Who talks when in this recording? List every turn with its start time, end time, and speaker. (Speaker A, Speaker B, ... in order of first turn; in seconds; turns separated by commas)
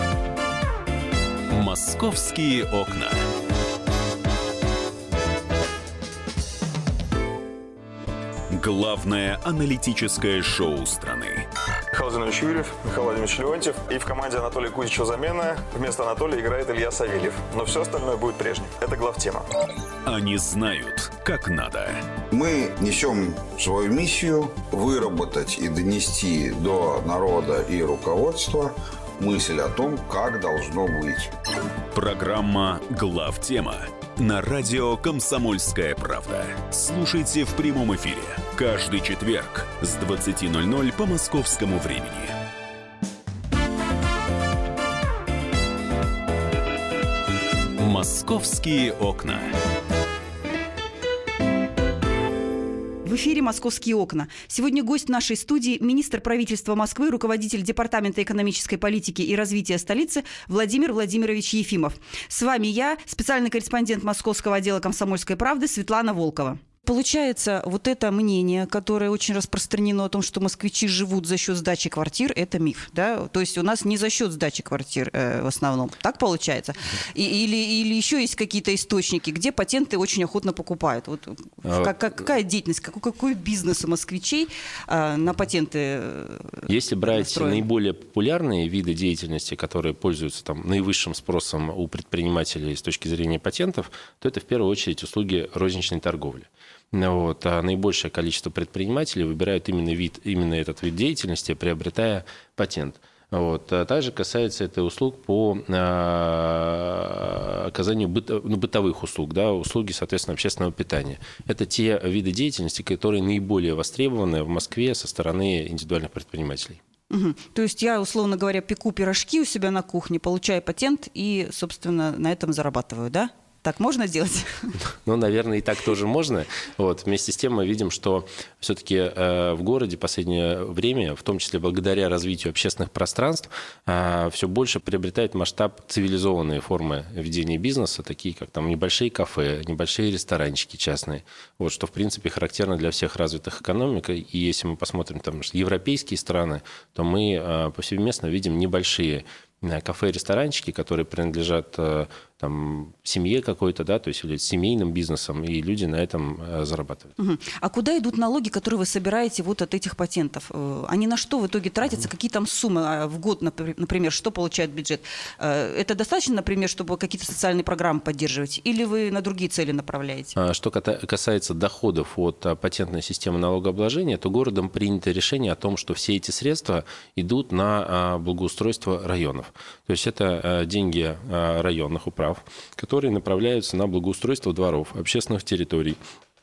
Speaker A: 1.5-3.2, Speaker A: 8.5-11.5, Speaker B: 11.9-19.5, Speaker A: 20.1-22.0, Speaker C: 22.3-31.3, Speaker A: 31.9-42.4, Speaker A: 47.8-49.6, Speaker D: 53.0-87.7, Speaker E: 81.7-81.9, Speaker E: 86.7-116.8, Speaker D: 117.1-124.8, Speaker E: 125.0-157.1, Speaker D: 157.2-170.4, Speaker E: 170.4-186.0